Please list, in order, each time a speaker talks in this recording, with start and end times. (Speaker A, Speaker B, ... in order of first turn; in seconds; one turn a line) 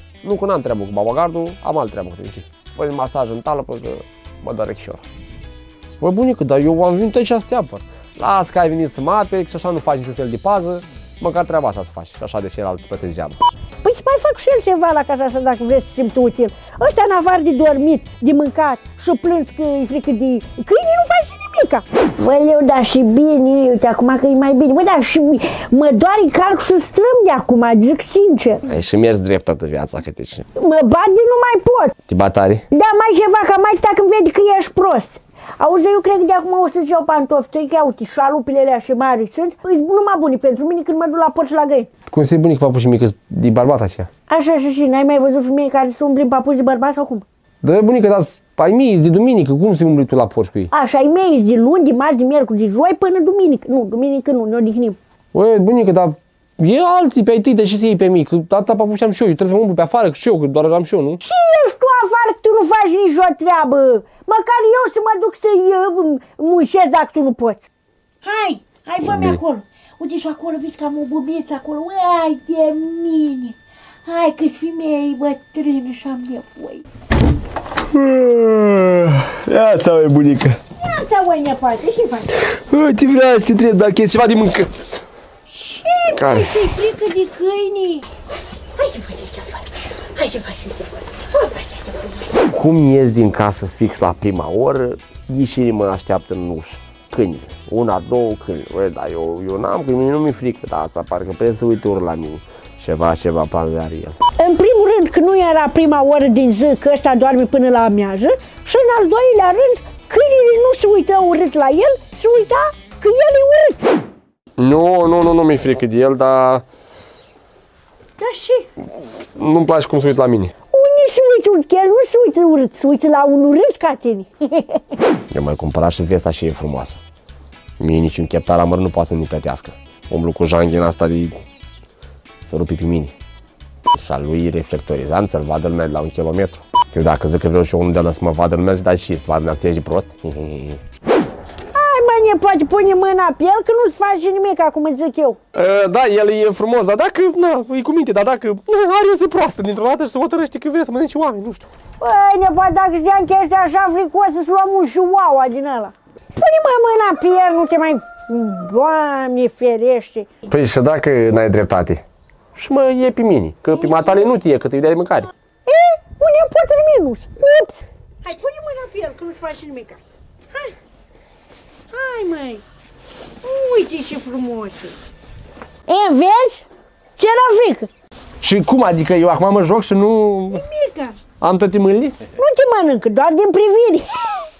Speaker A: 0.2-5.0
Speaker A: 6.0-13.4
Speaker B: 13.8-28.6
Speaker A: 28.7-30.4
Speaker B: 30.5-31.9
Speaker A: 32.1-32.6
Speaker B: 32.7-41.9
Speaker A: 42.1-44.1
Speaker B: 44.3-47.2
Speaker A: 47.6-50.7
Speaker B: 50.7-55.0
Speaker A: 55.3-61.2
Speaker B: 61.2-67.6
Speaker B: 68.2-76.8
Speaker A: 69.0-69.4
Speaker A: 77.9-80.6
Speaker B: 80.8-82.3
Speaker A: 82.4-84.7
Speaker B: 85.5-88.0
Speaker A: 86.1-86.7
Speaker B: 88.8-92.2
Speaker A: 92.4-104.2
Speaker B: 104.4-113.9
Speaker A: 114.6-116.6
Speaker B: 118.2-118.7
Speaker A: 119.3-120.5
Speaker B: 120.7-125.0
Speaker A: 125.3-127.0
Speaker A: 127.8-131.4
Speaker A: 132.4-133.1
Speaker A: 133.9-140.8
Speaker B: 141.7-145.4
Speaker A: 145.5-151.7
Speaker B: 152.0-160.3
Speaker A: 160.5-162.0
Speaker A: 162.5-165.3
Speaker B: 165.7-170.0
Speaker B: 171.9-172.6
Speaker B: 173.4-175.0
Speaker B: 175.9-176.7
Speaker B: 177.2-177.9
Speaker A: 178.4-180.6
Speaker B: 180.5-181.2
Speaker A: 181.4-182.3
Speaker B: 182.3-184.2